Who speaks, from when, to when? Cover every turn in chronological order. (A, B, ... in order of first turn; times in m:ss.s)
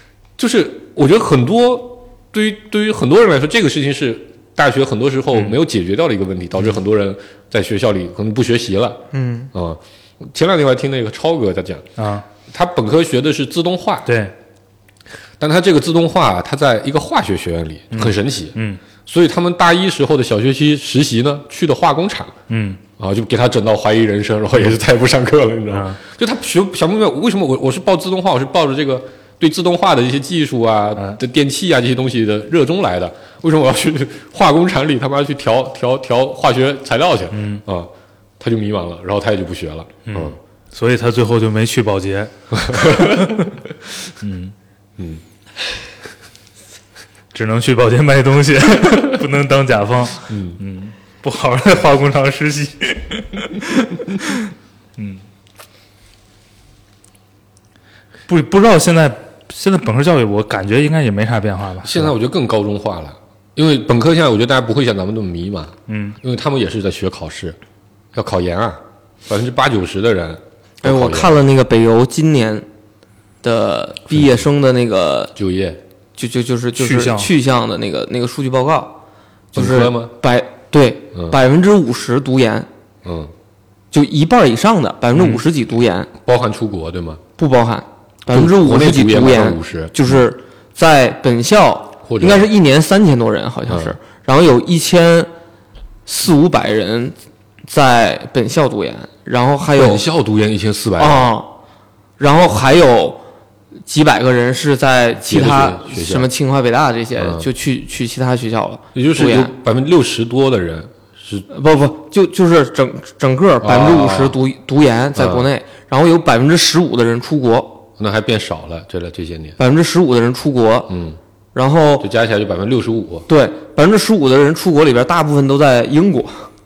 0:00.4-0:11.9 A
0:09.1-0:09.5 B
0:12.0-0:12.2 C
0:12.5-0:14.1 A
0:14.0-0:14.3 C
0:15.4-0:22.3 A
0:17.9-0:18.8 C
0:22.5-0:22.8 C
0:23.0-0:40.4 A
0:25.7-0:26.0 C
0:37.3-0:37.6 C
0:40.1-0:43.5 C
0:42.5-0:43.5 A
0:44.2-0:44.5 C
0:47.3-0:54.4 C
0:50.3-0:50.6 A
0:55.0-0:55.2 C
0:58.3-1:02.1 C
1:01.8-1:07.6 A
1:05.9-1:06.2 C
1:08.1-1:11.4 A
1:10.8-1:12.7 B
1:13.4-1:15.3 B
1:14.1-1:14.4 A
1:15.4-1:15.8 A
1:16.2-1:19.0 B
1:16.8-1:17.3 C
1:19.5-1:22.7 B
1:19.6-1:20.1 A
1:21.1-1:21.4 A
1:23.0-1:23.3 A
1:23.9-1:26.1 B
1:25.2-1:25.4 C
1:26.2-1:27.2 A
1:27.4-1:35.3 B
1:28.3-1:30.0 A
1:32.1-1:32.5 A
1:33.7-1:34.0 A
1:36.1-1:37.1 B
1:37.6-1:40.0 B
1:39.7-1:41.4 A
1:41.0-1:41.6 B
1:42.2-1:43.2 B
1:43.9-1:49.5 B
1:45.2-1:46.3 A
1:47.2-1:47.5 A
1:49.0-1:51.5 A
1:51.5-1:57.9 B
1:53.6-1:54.4 A
1:55.2-1:55.5 A
1:58.0-1:59.6 A
1:59.6-2:01.0 B
2:00.9-2:01.2 A
2:01.5-2:02.1 B
2:02.0-2:03.3 A
2:03.3-2:06.5 B